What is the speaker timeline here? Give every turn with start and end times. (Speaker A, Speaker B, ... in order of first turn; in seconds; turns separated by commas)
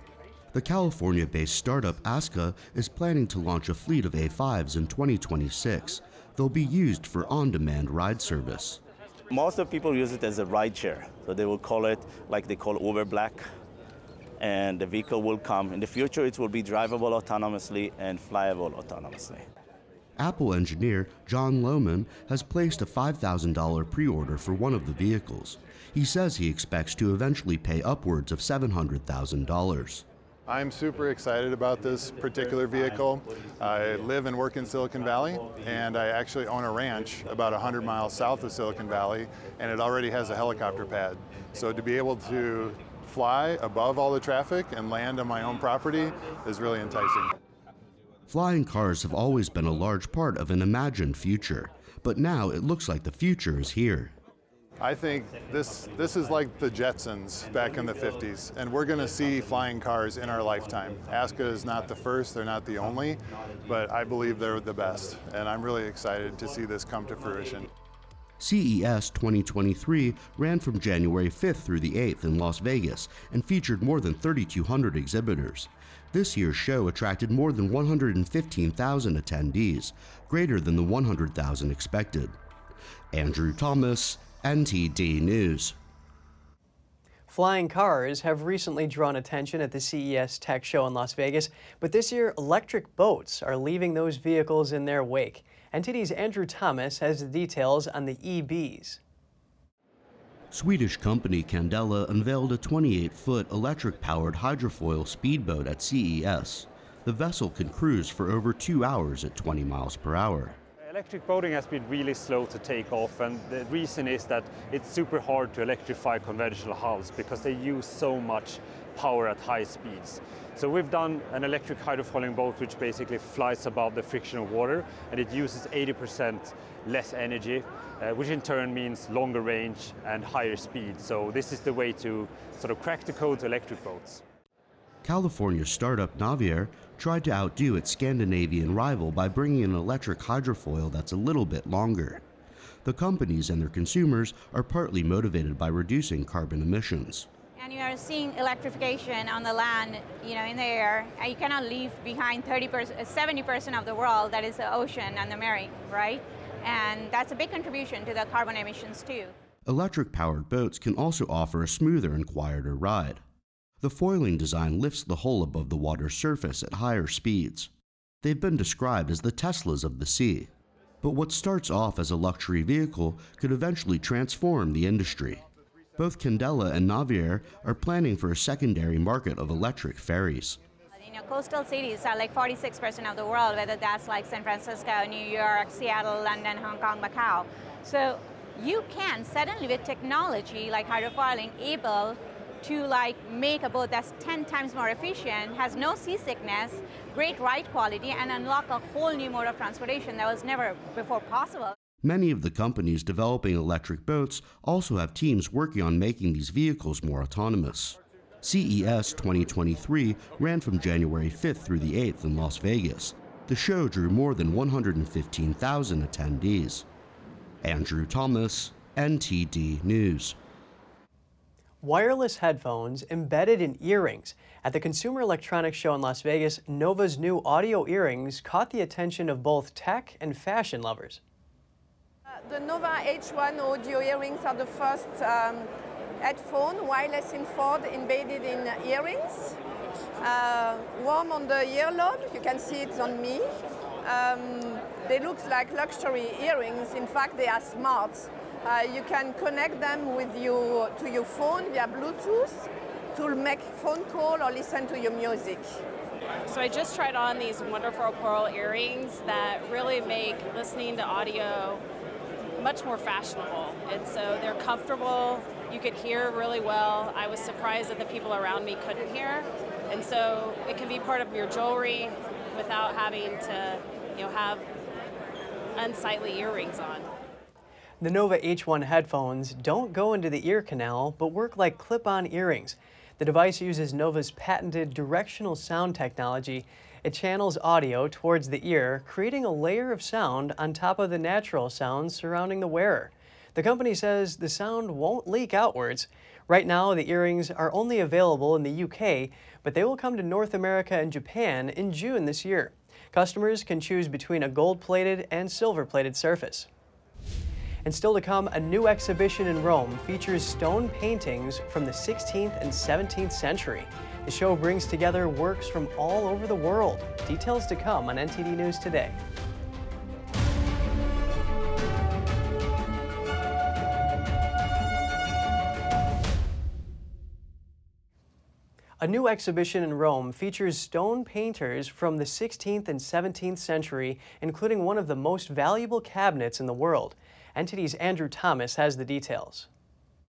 Speaker A: 0.5-8.8, Speaker B: 9.3-13.4, Speaker B: 14.4-19.4, Speaker A: 20.2-30.0, Speaker C: 30.5-47.3, Speaker A: 48.3-54.1, Speaker C: 54.8-67.7, Speaker A: 68.4-82.4, Speaker A: 83.1-85.7, Speaker D: 87.3-99.0, Speaker A: 100.5-110.6, Speaker E: 110.8-134.2, Speaker A: 135.0-142.2, Speaker A: 142.8-147.3, Speaker F: 147.6-159.3, Speaker A: 159.7-163.2, Speaker A: 163.8-167.7, Speaker A: 168.2-170.5, Speaker A: 171.0-175.4, Speaker A: 176.0-180.6, Speaker F: 181.0-201.7, Speaker A: 202.0-216.8, Speaker A: 217.6-220.3, Speaker D: 221.8-231.2, Speaker G: 232.4-235.7, Speaker G: 236.2-239.6, Speaker G: 240.2-243.5, Speaker G: 244.0-255.7, Speaker H: 256.5-261.8, Speaker H: 262.6-274.6, Speaker H: 275.8-277.1, Speaker D: 278.0-306.7, Speaker D: 307.8-319.2, Speaker D: 329.0-339.7